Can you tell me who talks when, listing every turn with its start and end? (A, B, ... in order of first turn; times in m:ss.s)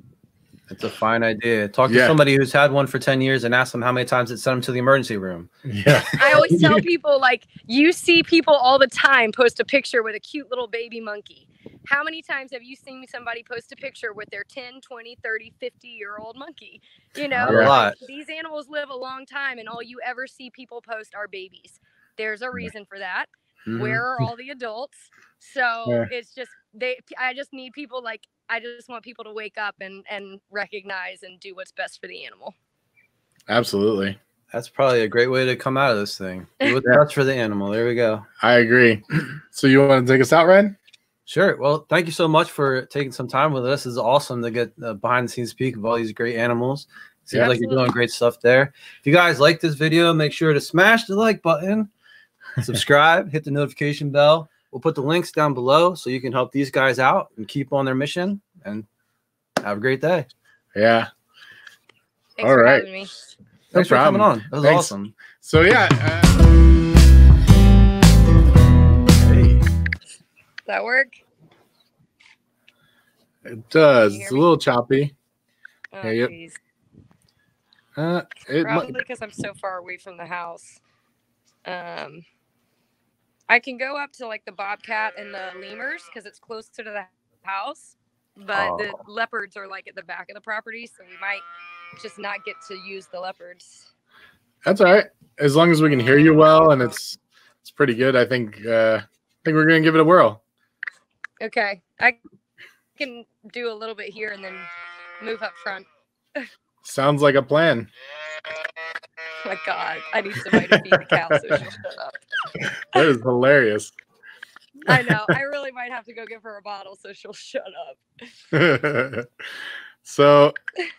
0:00.7-0:06.8 A
0:01.9-0:02.2 B
0:05.7-0:06.8 B
0:06.2-0:32.6 C
0:17.4-0:18.0 A
0:17.5-0:17.7 B
0:23.7-0:24.0 A
0:33.5-0:34.2 B
0:34.5-0:38.3 A
0:38.4-0:40.8 B
0:41.3-0:51.9 A
0:47.3-0:47.9 C
0:52.6-0:58.9 A
0:59.6-1:00.3 A
1:00.8-1:01.1 B
1:02.4-1:03.1 C
1:02.4-1:02.9 B
1:03.7-1:06.5 B
1:03.7-1:05.2 A
1:09.3-1:09.6 A
1:10.7-1:11.2 C
1:13.4-1:15.1 B
1:14.0-1:14.5 C
1:15.9-1:16.6 C
1:16.0-1:16.3 B
1:18.0-1:19.0 B
1:18.6-1:20.8 C
1:21.7-1:22.2 C
1:23.5-1:31.4 C
1:32.0-1:33.9 C
1:34.6-1:40.4 B
1:41.4-1:42.2 C
1:43.0-1:44.7 C
1:45.2-1:46.5 C
1:46.8-1:47.9 B
1:49.4-1:52.2 C
1:50.5-1:51.6 B
1:52.6-1:53.9 B
1:54.9-1:58.0 C
1:54.9-1:55.4 B
1:58.5-1:59.5 B
2:00.0-2:00.6 B